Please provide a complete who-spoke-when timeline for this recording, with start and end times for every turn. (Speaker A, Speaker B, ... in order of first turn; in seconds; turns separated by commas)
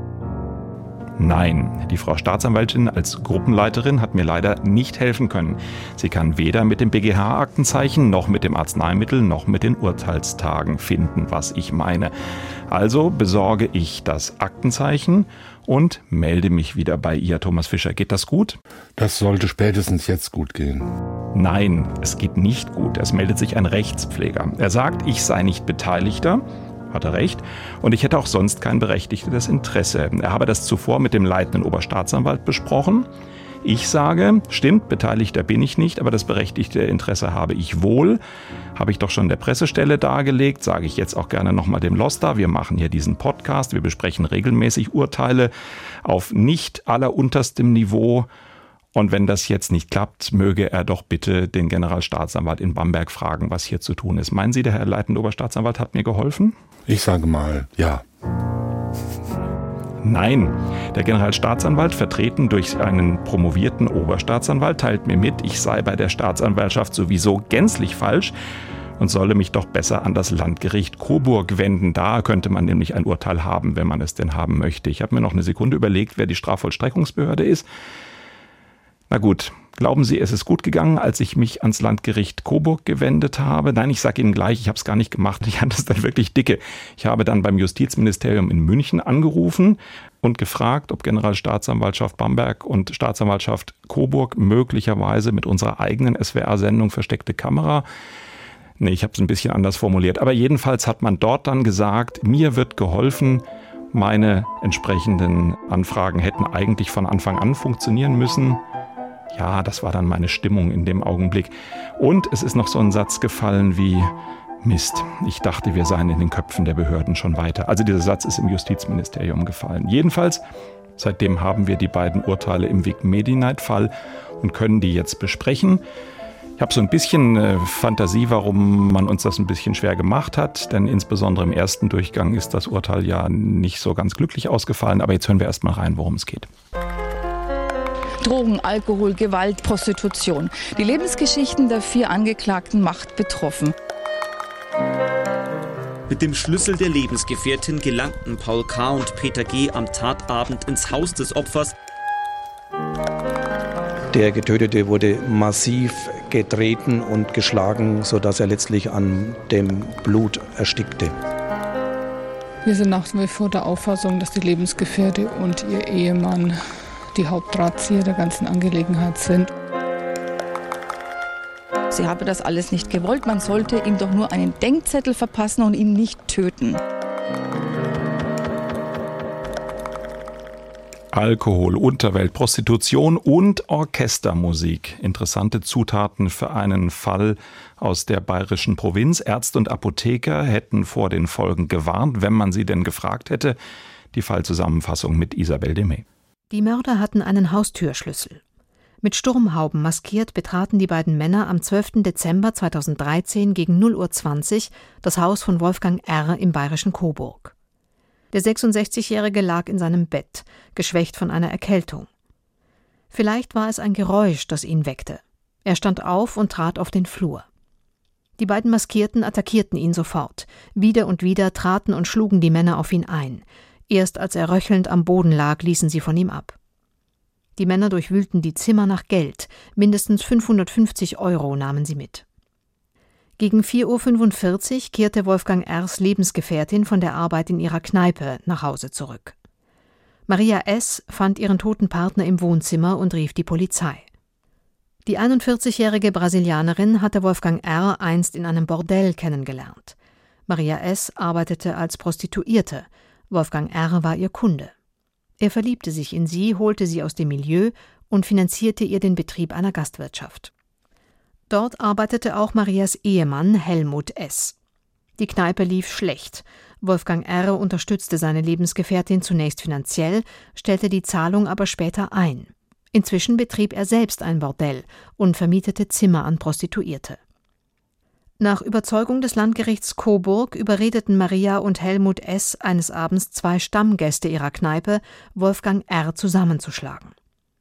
Speaker A: 1.2-12.1, Speaker A: 12.7-18.6, Speaker B: 19.0-20.9, Speaker A: 21.3-33.1, Speaker A: 33.6-38.2, Speaker A: 38.8-45.5, Speaker A: 46.0-48.3, Speaker A: 48.9-56.5, Speaker B: 56.9-58.0, Speaker A: 60.0-68.3, Speaker A: 69.0-77.7, Speaker A: 79.1-97.8, Speaker A: 98.8-108.6, Speaker A: 109.3-114.1, Speaker A: 114.6-120.4, Speaker A: 121.0-125.8, Speaker A: 126.6-136.5, Speaker C: 138.2-143.7, Speaker D: 146.1-151.7, Speaker E: 154.1-161.1, Speaker F: 162.7-166.6, Speaker F: 167.1-169.5, Speaker C: 171.9-176.8, Speaker A: 181.1-193.6, Speaker A: 194.1-196.1, Speaker G: 196.5-198.4, Speaker G: 199.0-207.5, Speaker G: 208.3-212.1, Speaker G: 213.1-217.4, Speaker G: 218.4-226.6, Speaker G: 227.6-232.2, Speaker G: 233.4-239.3, Speaker G: 240.3-244.1, Speaker G: 245.1-249.9, Speaker G: 250.5-254.7, Speaker G: 255.4-260.5, Speaker G: 261.5-264.6, Speaker G: 265.2-277.2, Speaker G: 278.4-287.1